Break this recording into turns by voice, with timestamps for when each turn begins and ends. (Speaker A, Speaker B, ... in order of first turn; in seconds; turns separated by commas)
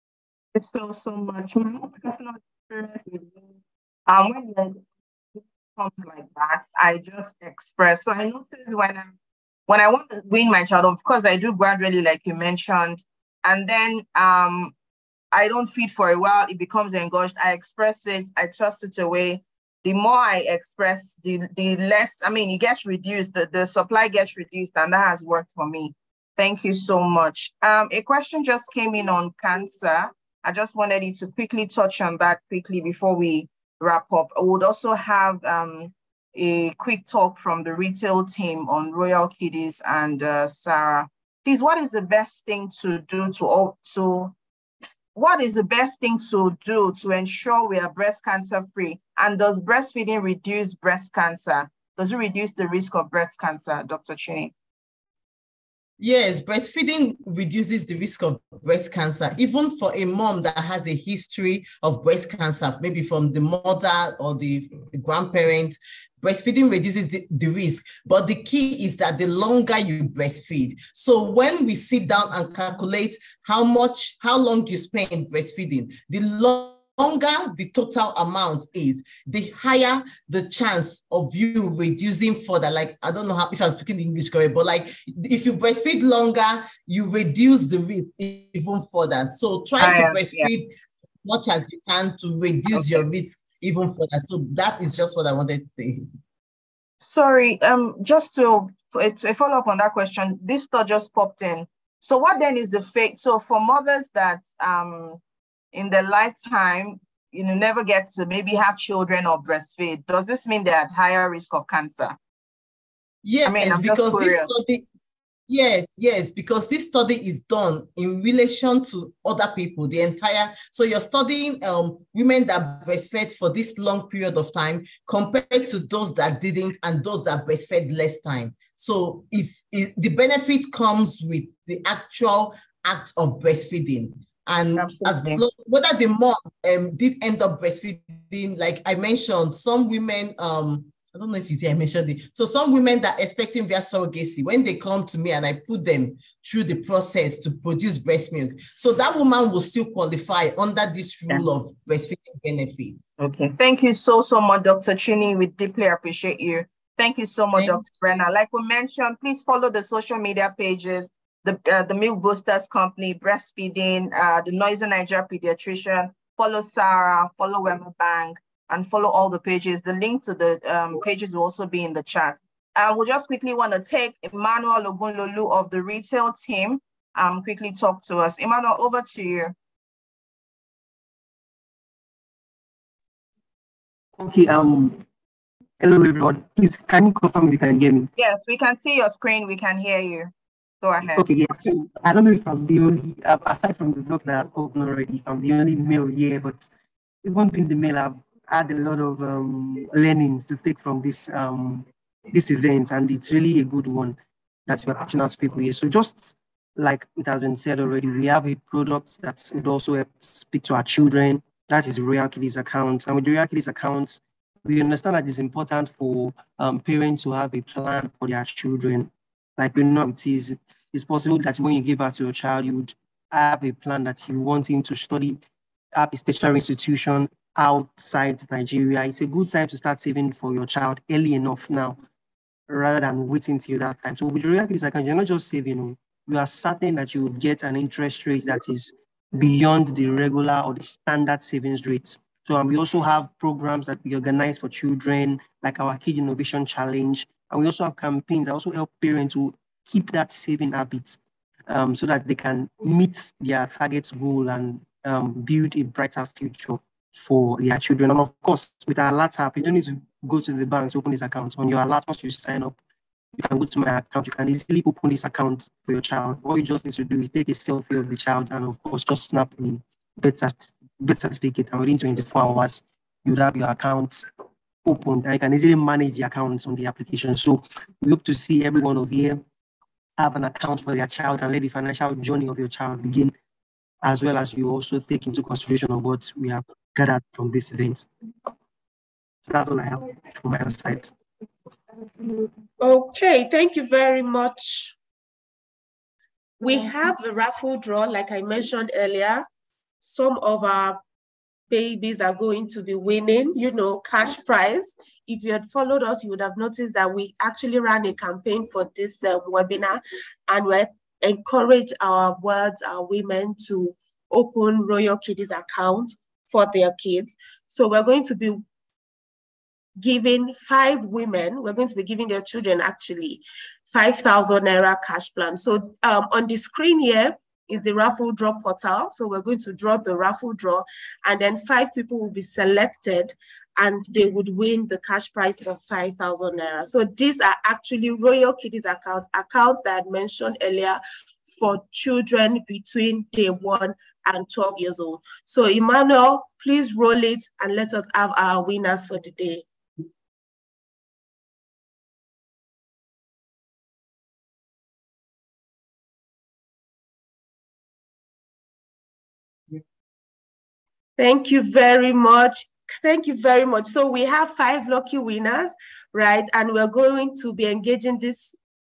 Speaker A: 0.5-4.8, Speaker A: 5.3-9.1, Speaker A: 9.7-14.7, Speaker A: 15.3-44.3, Speaker A: 45.1-54.5, Speaker B: 56.0-90.7, Speaker A: 89.8-90.5, Speaker B: 91.2-96.0, Speaker A: 92.7-93.0, Speaker A: 97.0-105.2, Speaker A: 105.7-112.2, Speaker B: 113.2-114.9, Speaker A: 113.5-114.6, Speaker B: 115.5-153.0, Speaker A: 134.8-135.4, Speaker A: 153.2-179.5, Speaker B: 157.6-157.8, Speaker C: 184.2-185.0, Speaker C: 185.8-188.1, Speaker A: 188.2-191.3, Speaker C: 191.1-196.7, Speaker C: 197.2-225.4, Speaker C: 225.9-232.0, Speaker C: 232.7-262.8, Speaker C: 263.3-274.3, Speaker C: 274.9-279.4, Speaker C: 280.2-283.3, Speaker C: 284.0-288.1, Speaker C: 289.5-291.1, Speaker D: 292.8-294.9, Speaker D: 296.6-299.5, Speaker D: 300.0-301.0, Speaker D: 301.7-318.6, Speaker D: 320.0-341.0, Speaker D: 341.5-349.6, Speaker D: 361.2-368.6